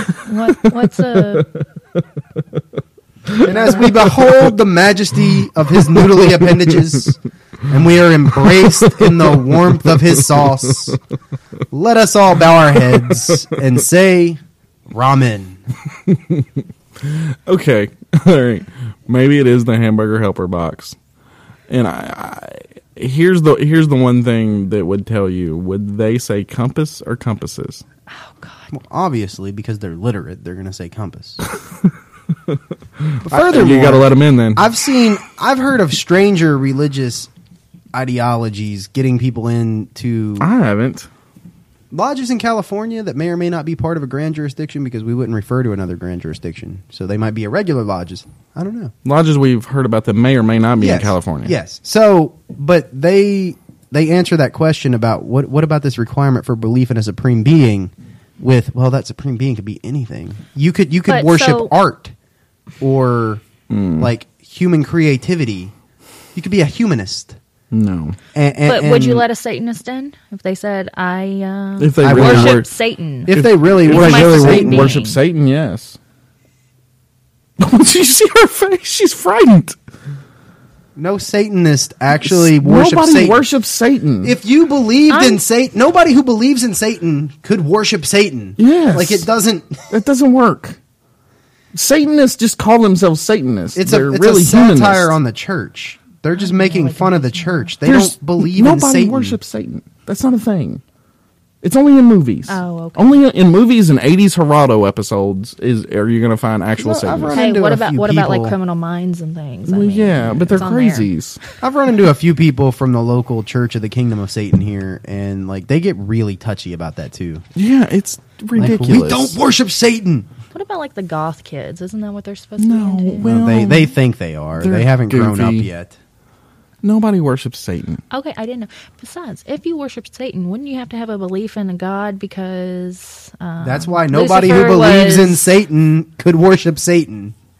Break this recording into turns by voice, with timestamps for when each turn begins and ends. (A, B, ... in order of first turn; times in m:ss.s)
0:00.2-0:01.5 A
0:03.3-0:04.4 B
0:03.4-0:11.0 C
0:03.4-0:03.8 A
0:05.9-0:07.0 B
0:08.5-0:10.9 B
0:11.7-0:15.6 C
0:13.1-0:13.4 B
0:16.1-0:16.5 B
0:17.0-0:21.0 B
0:21.7-0:27.8 B
0:28.1-0:28.7 A
0:28.7-0:31.4 C
0:31.6-0:31.9 B
0:32.5-0:34.7 B
0:33.2-0:37.3 C
0:37.9-0:40.5 C
0:40.4-0:41.1 B
0:41.9-0:48.9 C
0:49.0-0:51.5 B
0:50.8-1:02.1 C
1:01.1-1:01.7 A
1:02.8-1:03.4 C
1:03.7-1:04.1 B
1:04.0-1:05.7 C
1:06.4-1:07.4 C
1:07.7-1:08.2 B
1:08.3-1:09.3 C
1:08.6-1:15.2 A
1:11.8-1:12.7 B
1:12.0-1:12.6 C
1:13.3-1:15.0 C
1:13.3-1:16.0 B
1:17.6-1:19.8 B
1:21.0-1:23.4 C
1:22.2-1:24.4 B
1:24.2-1:29.9 C
1:25.1-1:25.4 A
1:28.6-1:29.3 B
1:29.9-1:30.8 B
1:31.7-1:35.1 B
1:33.8-1:39.4 C
1:36.3-1:37.7 A
1:37.8-1:40.8 B
1:41.6-1:47.4 B
1:42.5-1:43.1 A
1:46.8-1:48.6 C
1:47.3-1:51.1 A
1:49.7-1:51.4 B
1:51.6-1:57.4 C
1:57.6-1:59.4 B
1:58.6-2:00.3 C
2:00.5-2:03.3 A
2:02.6-2:03.9 B
2:03.2-2:06.0 C
2:04.6-2:05.7 B
2:06.8-2:08.0 B
2:08.1-2:15.5 A
2:13.6-2:17.3 C